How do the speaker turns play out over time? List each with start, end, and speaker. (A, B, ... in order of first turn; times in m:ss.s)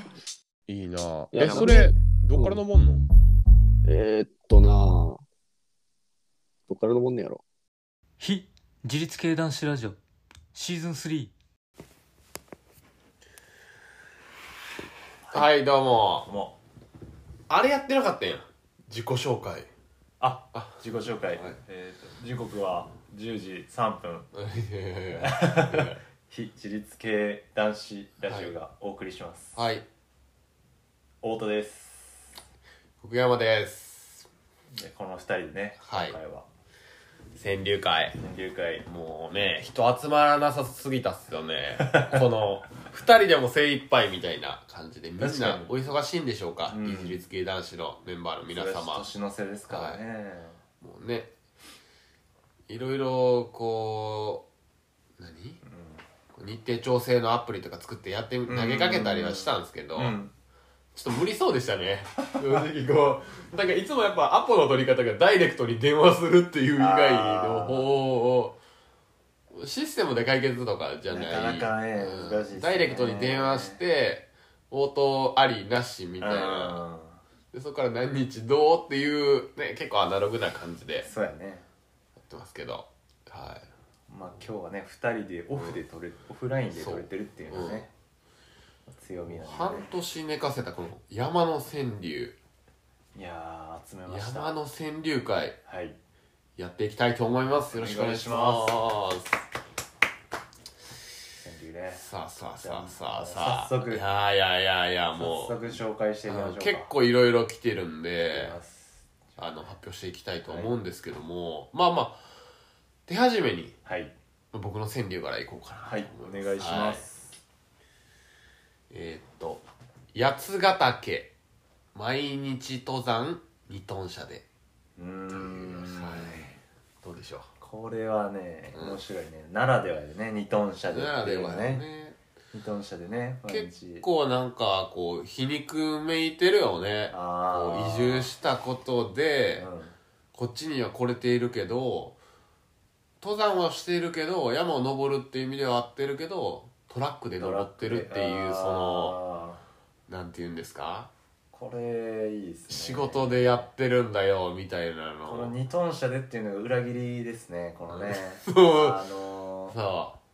0:00.7-0:03.0 A
0:01.3-0:02.6 B
0:03.8-0:05.2 B
0:06.7-0:07.4 B
0:08.2-0:10.0 C
0:10.5-0:11.3 C
0:15.2-0:15.5 D
0:15.3-0:16.3 A
0:16.2-0:16.6 D
0:17.5-0:19.7 A
0:20.2-0:24.3 D
0:20.5-0:20.8 A
0:24.3-0:26.0 A
0:25.2-0:29.6 D
0:28.3-0:28.5 A
0:29.5-0:29.8 A
0:31.2-0:32.3 D
0:33.0-0:34.3 A
0:34.7-0:36.5 D
0:35.8-0:36.2 A
0:37.4-0:38.2 A
0:38.2-0:38.8 D
0:38.8-0:49.0 A
0:41.9-0:42.2 D
0:45.2-0:45.7 D
0:46.7-0:47.2 D
0:48.4-0:50.6 D
0:49.7-0:50.0 A
0:50.8-0:51.3 A
0:52.7-0:54.5 A
0:55.2-0:55.6 A
0:55.6-0:56.0 D
0:56.3-1:00.2 A
0:58.5-1:00.3 D
1:00.9-1:08.6 A
1:06.8-1:07.9 D
1:09.5-1:16.8 A
1:11.1-1:13.8 D
1:16.2-1:17.2 D
1:17.5-1:21.1 A
1:21.0-1:21.6 D
1:22.2-1:23.7 A
1:24.1-1:27.9 D
1:26.7-1:27.8 A
1:28.8-1:29.9 D
1:29.3-1:32.4 A
1:33.1-1:34.6 D
1:34.1-1:35.6 A
1:35.6-1:36.0 D
1:36.6-1:39.4 A
1:37.6-1:38.8 D
1:41.4-1:42.0 D
1:41.9-1:45.6 A
1:42.6-1:44.0 D
1:45.2-1:46.9 D
1:46.3-1:48.6 A
1:48.3-1:49.7 D
1:49.4-1:52.2 A
1:50.4-1:50.7 D
1:53.1-1:53.8 A
1:53.8-1:54.1 D
1:54.5-1:57.0 A
1:55.8-1:57.4 D
1:58.9-2:01.3 A
2:01.9-2:04.4 A
2:05.0-2:06.6 D
2:05.3-2:07.5 A
2:07.6-2:11.8 D
2:08.7-2:09.0 A
2:10.9-2:12.2 A
2:12.5-2:14.0 D
2:13.5-2:19.7 A
2:17.1-2:18.3 D
2:19.6-2:19.9 D
2:20.3-2:22.2 A
2:23.2-2:29.2 A
2:27.4-2:29.6 D
2:30.1-2:31.1 A
2:31.5-2:33.7 D
2:32.7-2:35.5 A
2:35.2-2:39.8 D
2:37.9-2:39.0 A
2:39.7-2:40.2 A